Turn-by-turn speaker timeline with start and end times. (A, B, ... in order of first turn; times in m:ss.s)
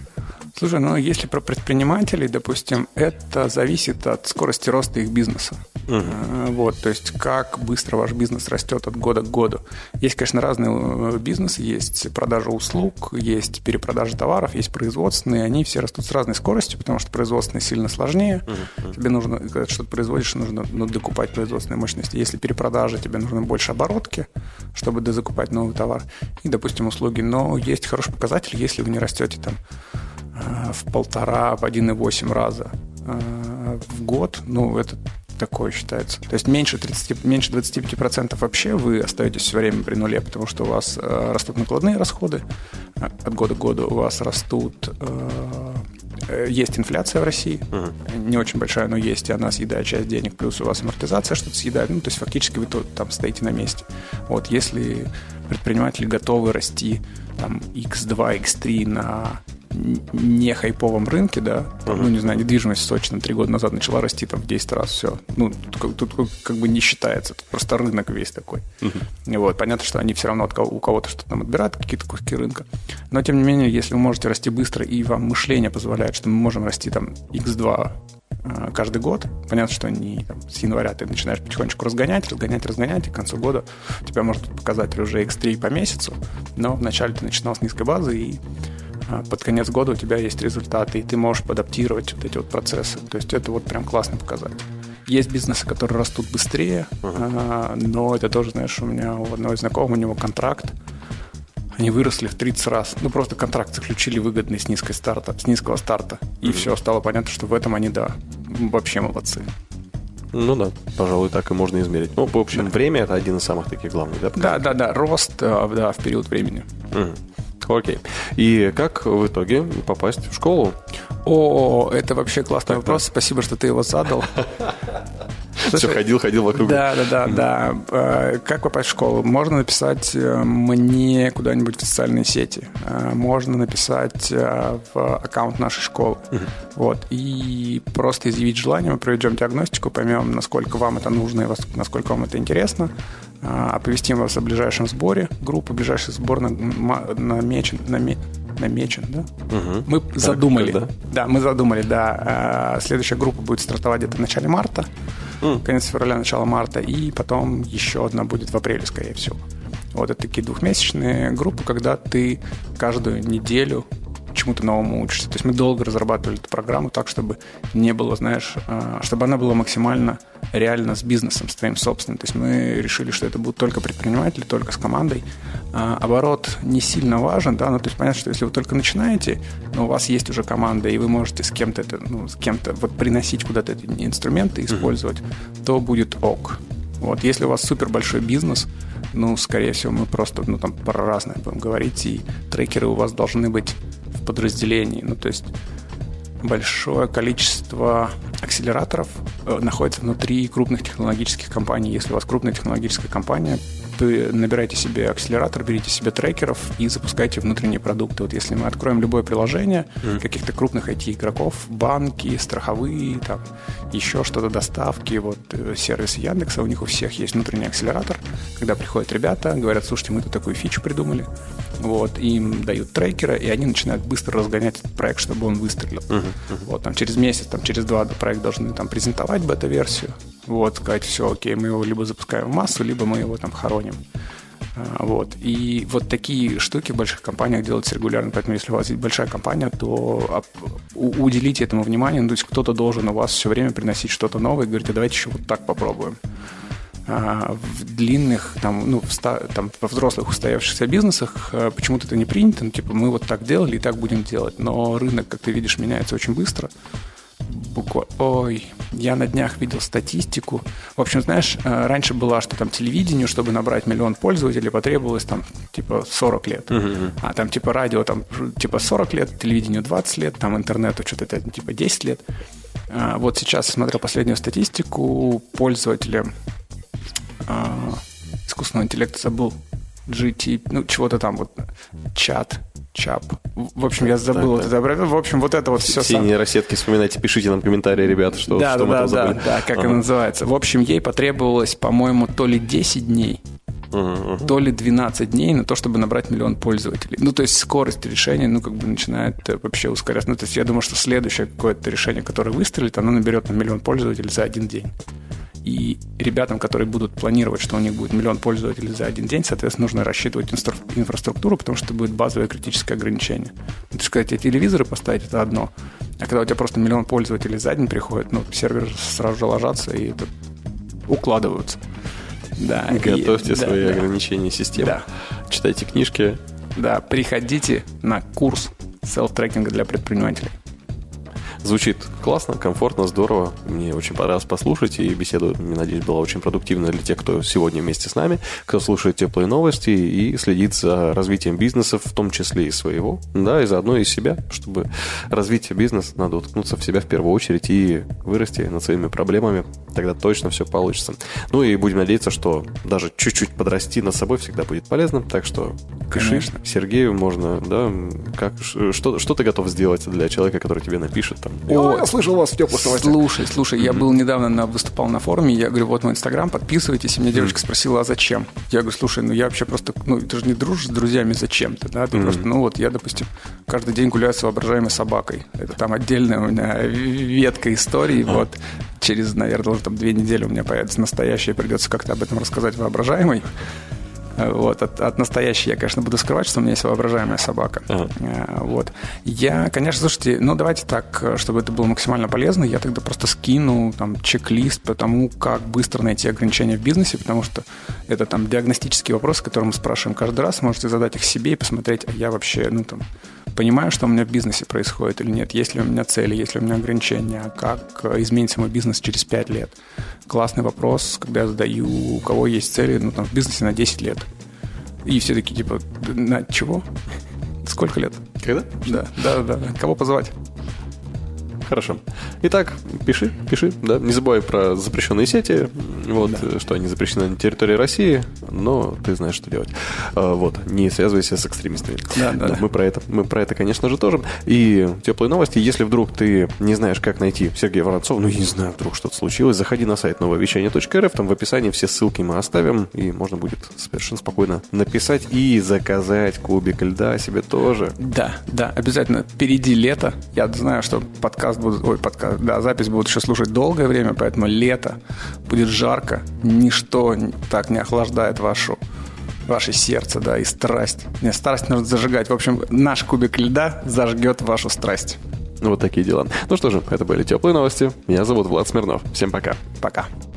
0:00.5-0:29.6 A
0:05.9-0:06.2 B
0:18.5-0:18.9 B
0:30.3-0:42.4 A
0:43.0-1:08.7 A
1:09.2-1:28.4 A
1:29.1-1:40.8 A
1:41.8-1:49.5 A
1:50.3-1:54.6 B
1:54.3-1:56.7 A
1:56.9-2:00.8 B
2:01.2-2:04.4 A
2:02.7-2:03.0 B
2:05.6-2:29.3 A
2:05.7-2:07.3 B
2:29.5-2:30.9 B
2:29.8-2:34.9 A
2:35.5-3:15.5 A
3:16.4-3:41.3 A
3:41.8-3:54.0 A
3:46.1-3:46.6 B
3:54.7-4:06.2 A
4:07.0-4:16.7 A
4:17.4-4:32.2 A
4:26.7-4:27.1 B
4:32.9-4:36.3 A
4:37.4-4:46.3 A
4:44.3-4:44.7 B
4:45.8-4:50.0 B
4:48.4-4:53.4 A
4:53.9-4:54.5 B
4:54.4-5:04.9 A
5:05.6-5:20.3 A
5:21.1-5:21.8 A
5:22.6-5:24.1 A
5:22.9-5:26.4 B
5:24.7-5:25.0 A
5:26.7-5:30.6 A
5:31.6-6:03.2 B
5:56.1-5:56.6 A
6:01.7-6:23.5 A
6:12.1-6:12.4 B
6:24.4-6:43.0 A
6:43.5-6:49.8 A
6:50.3-6:54.3 A
6:55.0-6:56.9 A
6:57.6-7:00.4 A
6:58.4-6:59.0 B
7:01.6-7:28.0 B
7:12.1-7:12.6 A
7:28.0-7:38.8 A
7:39.5-7:45.2 A
7:45.6-7:49.6 B
7:49.8-7:50.1 A